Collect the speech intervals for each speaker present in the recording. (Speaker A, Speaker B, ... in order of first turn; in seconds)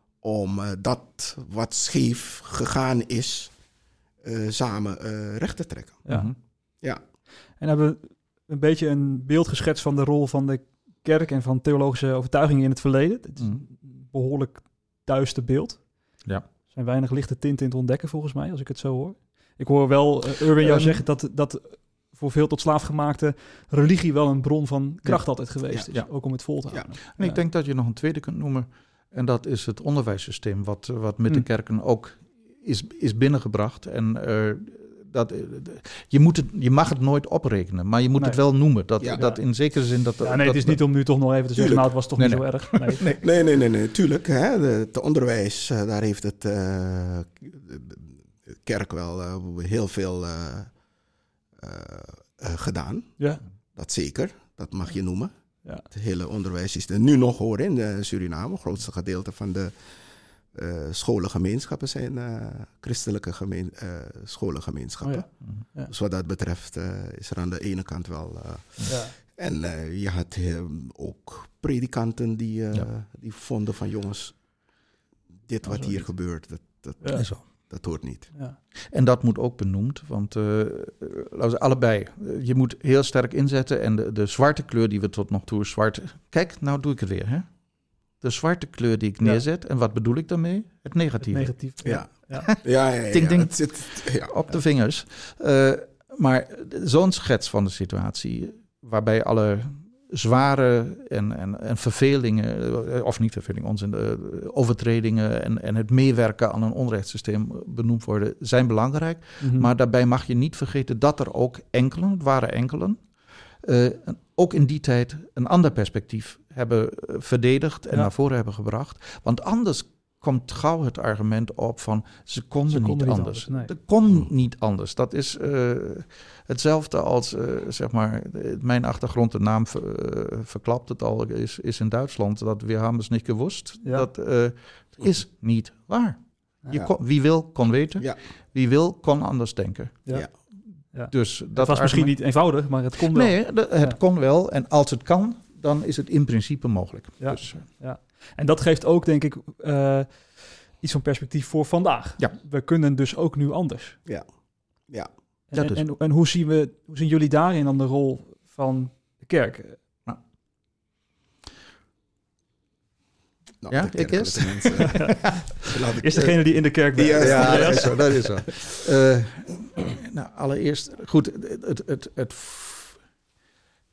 Speaker A: 0.2-3.5, 4.2-6.0, 41.6-41.9, 43.2-50.7, 51.6-53.2, 53.8-55.3, 55.9-59.7, 60.5-65.3, 65.9-74.4, 75.5-78.3, 91.8-94.3, 163.6-166.3, 166.9-168.6
Speaker B: 6.0-6.3, 7.6-15.9, 16.7-27.4, 39.1-39.4, 40.2-43.1, 65.0-65.9, 68.9-69.1, 75.7-76.0, 77.0-77.3, 91.3-92.5, 109.4-109.7, 122.7-123.7, 140.9-144.0, 147.2-154.0, 155.5-159.8, 164.9-165.2, 166.0-168.1
Speaker C: 6.1-6.4, 20.6-21.0, 27.2-40.8, 42.2-43.2, 77.1-77.4, 78.9-87.5, 88.2-92.6, 93.1-113.0, 113.6-140.1, 141.1-142.1, 143.0-147.7, 155.6-155.8, 163.7-165.4, 167.2-173.0